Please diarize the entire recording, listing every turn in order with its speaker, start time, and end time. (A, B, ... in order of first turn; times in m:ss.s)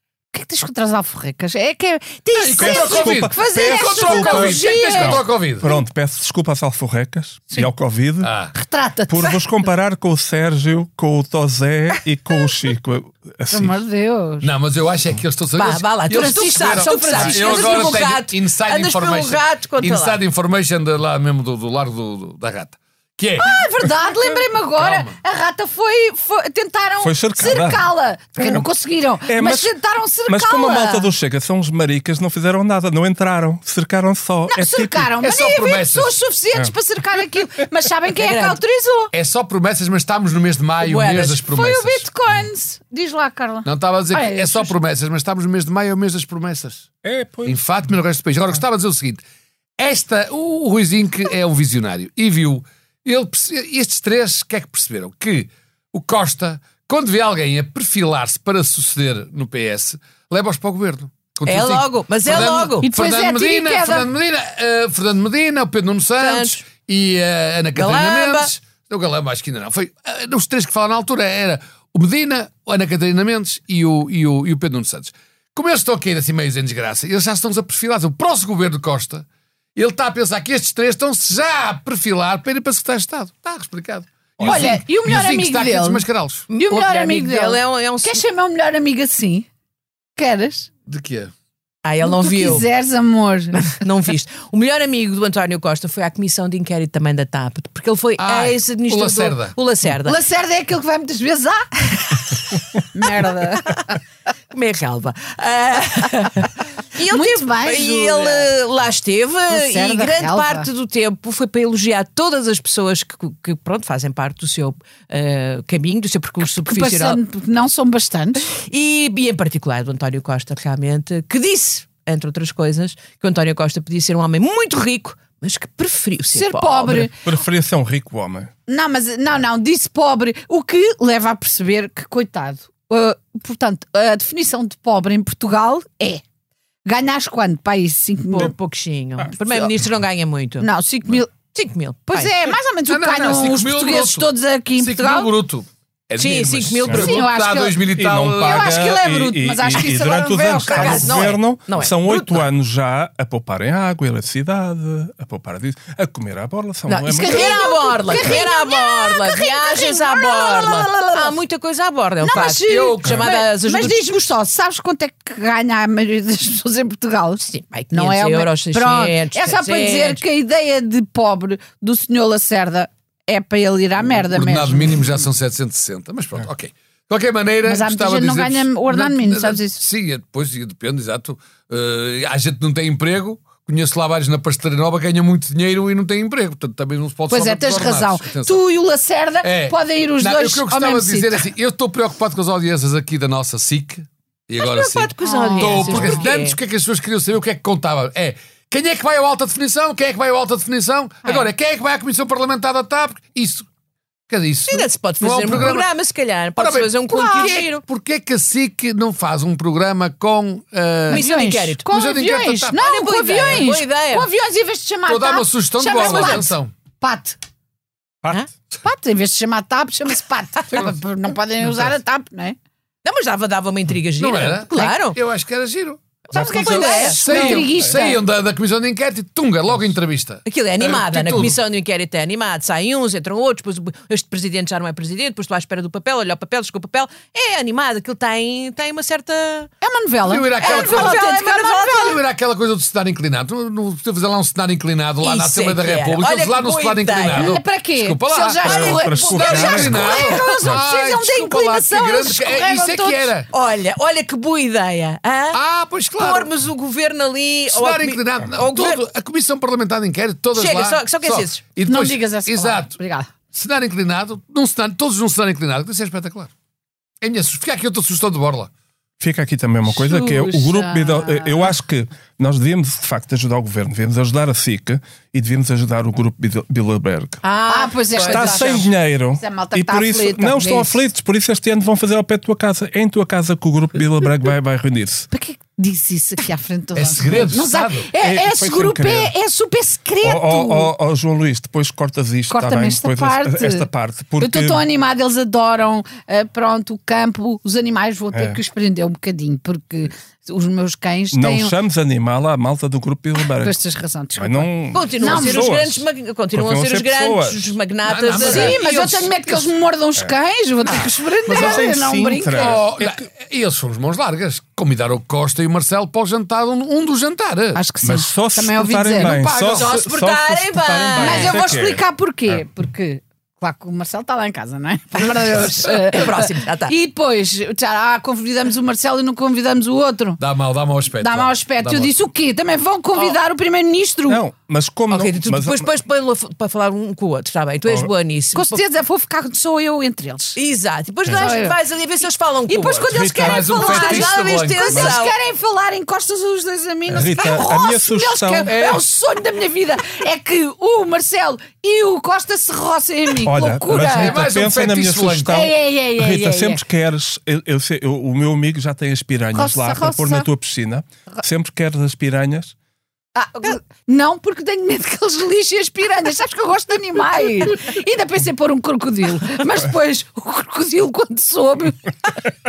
0:00.3-0:05.2 A
0:02.4-0:05.7 B
0:02.6-0:08.3 C
0:08.2-0:08.5 B
0:08.5-0:09.4 A
0:09.1-0:13.8 C
0:13.5-0:14.5 A
0:14.4-0:23.6 B
0:15.6-0:20.2 D
0:16.1-0:18.1 A
0:23.4-0:31.1 A
0:24.8-0:25.1 B
0:27.0-0:27.8 C
0:28.4-0:28.7 C
0:29.2-0:29.7 C
0:30.3-0:35.1 C
0:34.5-0:39.1 A
0:35.2-0:36.1 B
0:38.2-0:38.6 D
0:39.1-0:42.0 B
0:40.8-0:41.4 D
0:41.4-0:44.7 A
0:43.6-0:46.9 B
0:47.0-0:47.6 C
0:47.4-0:49.2 B
0:49.8-1:19.2 B
1:01.4-1:02.9 D
1:02.8-1:04.1 A
1:06.2-1:06.6 D
1:07.7-1:08.5 D
1:19.8-1:26.4 B
1:24.4-1:24.7 C
1:24.4-1:29.5 A
1:26.5-1:28.2 D
1:30.2-1:30.7 A
1:30.9-1:31.3 B
1:31.8-1:32.6 D
1:32.0-1:33.8 A
1:33.6-1:40.2 D
1:38.2-1:39.5 B
1:40.0-1:44.0 A
1:44.5-1:57.2 D
1:47.0-1:48.5 A
1:49.5-1:50.7 A
1:56.4-1:58.4 A
1:58.4-2:07.0 D
2:06.3-2:07.3 A
2:06.8-2:08.5 C
2:08.7-2:16.2 A
2:16.8-2:18.5 A
2:18.3-2:20.7 D
2:20.6-2:21.3 A
2:21.5-2:22.3 D
2:22.1-2:25.3 A
2:22.9-2:28.9 B
2:26.2-2:27.2 D
2:26.9-2:27.8 A
2:28.0-2:38.4 C
2:28.4-2:31.3 A
2:30.7-2:32.4 D
2:36.9-2:44.3 D
2:37.1-2:41.3 A
2:42.2-2:55.2 A
2:42.7-2:43.2 B
2:47.4-2:50.2 D
2:54.1-3:08.6 B
2:57.6-2:59.8 A
3:07.3-3:11.5 A
3:09.4-3:23.7 B
3:14.6-3:16.6 D
3:15.2-3:16.3 A
3:24.3-3:25.9 B
3:24.7-3:27.8 D
3:26.6-3:31.3 B
3:27.2-3:27.5 A
3:31.1-3:31.8 D
3:31.1-3:37.4 A
3:31.8-3:32.8 B
3:32.7-3:34.3 D
3:35.0-3:36.7 B
3:36.0-3:36.3 D
3:38.8-3:42.6 A
3:43.0-3:45.2 D
3:44.2-3:46.0 B
3:46.3-3:47.7 D
3:46.3-3:47.8 C
3:46.3-3:48.2 A
3:47.0-3:51.6 B
3:50.4-3:59.7 D
3:59.8-4:02.2 A
4:00.2-4:01.2 B
4:00.6-4:02.2 D
4:01.9-4:13.5 B
4:05.2-4:07.5 D
4:07.3-4:13.3 A
4:08.6-4:10.7 C
4:09.3-4:09.9 D
4:13.5-4:15.6 D
4:15.5-4:16.5 B
4:16.2-4:19.0 D
4:17.7-4:23.0 B
4:20.5-4:21.6 D
4:21.9-4:23.3 A
4:23.5-4:26.5 B
4:27.2-4:28.7 B
4:29.2-4:37.4 C
4:29.8-4:31.7 A
4:37.4-4:38.9 D
4:37.7-4:41.0 A
4:38.2-4:45.3 C
4:45.3-4:50.9 A
4:46.9-4:48.1 B
4:48.2-4:49.3 C
4:50.2-4:54.8 C
4:52.5-4:53.9 A
4:54.4-5:01.7 A
4:58.3-4:58.6 C
5:01.3-5:03.8 C
5:03.6-5:05.7 A
5:04.4-5:07.7 C
5:04.9-5:09.3 D
5:08.0-5:09.2 B
5:08.4-5:12.8 A
5:10.9-5:11.9 B
5:11.4-5:13.2 C
5:12.5-5:17.8 B
5:17.7-5:19.5 A
5:18.0-5:22.6 C
5:19.1-5:20.0 B
5:19.7-5:21.9 D
5:21.2-5:30.4 A
5:26.0-5:26.9 D
5:30.4-5:32.1 B
5:31.2-5:34.4 A
5:34.3-5:35.9 C
5:35.1-5:38.8 D
5:38.5-5:40.6 A
5:40.6-5:43.2 D
5:41.3-5:41.8 A
5:42.7-5:54.4 A
5:43.1-5:43.7 C
5:43.3-5:45.0 B
5:43.7-5:45.3 D
5:47.1-5:47.4 B
5:47.1-5:48.7 C
5:48.7-5:49.0 B
5:53.4-6:02.7 C
5:53.9-5:55.7 B
5:55.5-5:56.8 A
5:59.5-6:00.5 A
6:03.3-6:12.5 A